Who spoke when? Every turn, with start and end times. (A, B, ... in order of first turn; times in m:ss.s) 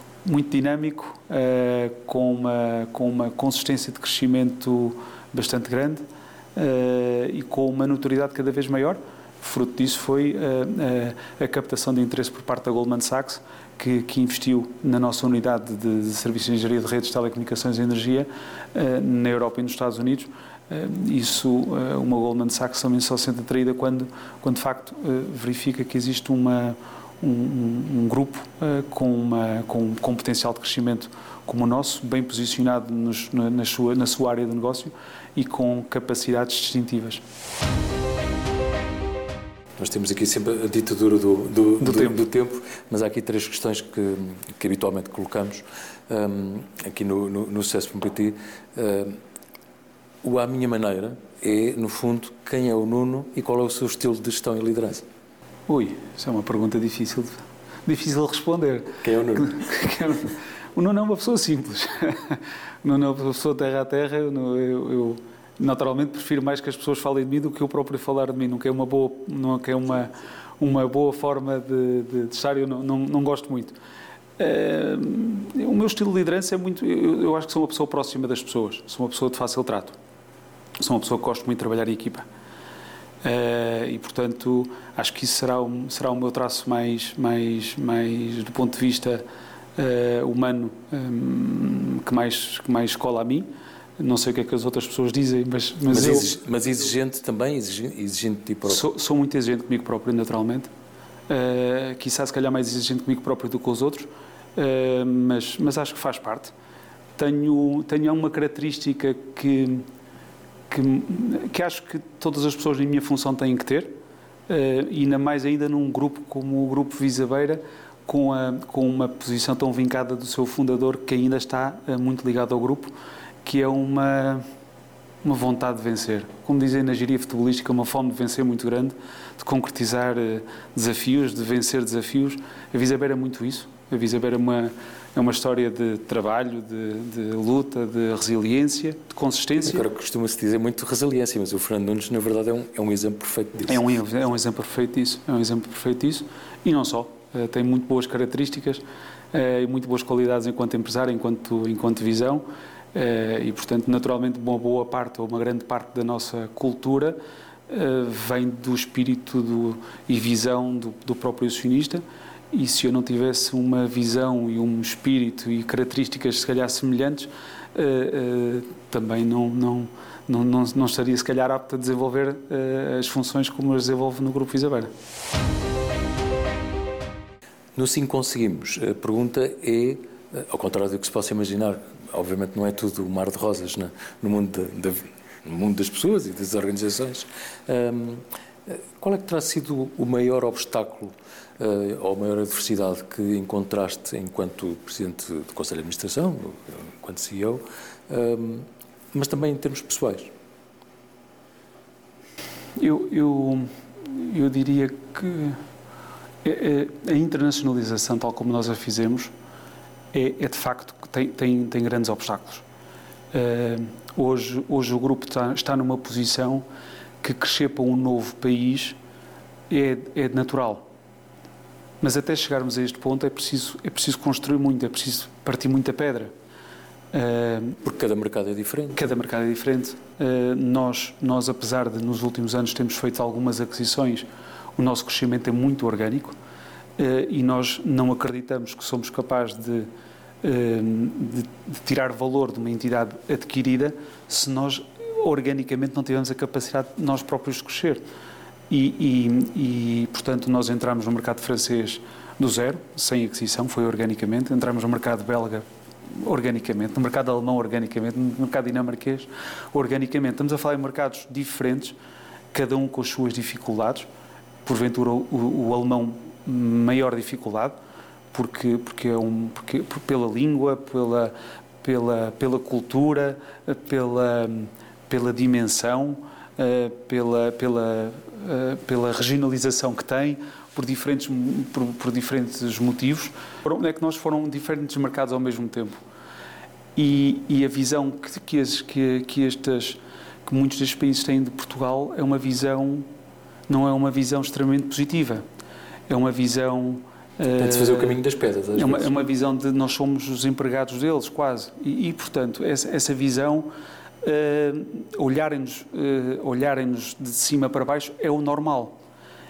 0:00.2-0:37.2 A
0:39.8-0:49.2 B
0:41.8-0:42.2 A
0:50.2-0:55.0 B
0:55.7-1:13.8 A
0:59.0-0:59.5 B
1:14.4-1:20.0 A
1:20.8-1:22.2 A
1:23.2-1:29.2 A
1:29.8-1:33.5 A
1:34.0-1:36.3 A
1:35.9-1:38.8 B
1:38.7-1:40.7 A
1:41.3-1:46.5 A
1:47.2-1:49.9 A
1:50.7-1:53.9 A
1:54.5-2:02.9 A
2:03.4-2:04.4 A
2:05.2-2:19.9 A
2:19.6-2:23.8 B
2:23.7-2:54.9 A
2:57.8-3:20.3 B
3:22.8-3:25.6 A
3:26.4-3:29.3 A
3:30.1-3:32.6 A
3:33.3-3:36.7 A
3:37.2-3:39.0 A
3:39.7-3:40.9 A
3:42.0-3:46.3 A
3:47.1-3:47.8 A
3:47.8-3:49.1 B
3:49.0-3:56.4 A
3:57.0-3:59.9 A
4:00.4-4:08.0 A
4:08.7-4:22.0 A
4:22.5-4:24.1 A
4:24.6-4:27.8 A
4:28.3-4:46.0 A
4:47.0-4:53.1 A
4:53.7-4:55.4 A
4:56.1-4:58.2 A
4:57.6-4:59.1 B
4:58.7-5:03.7 A
5:04.2-5:09.0 A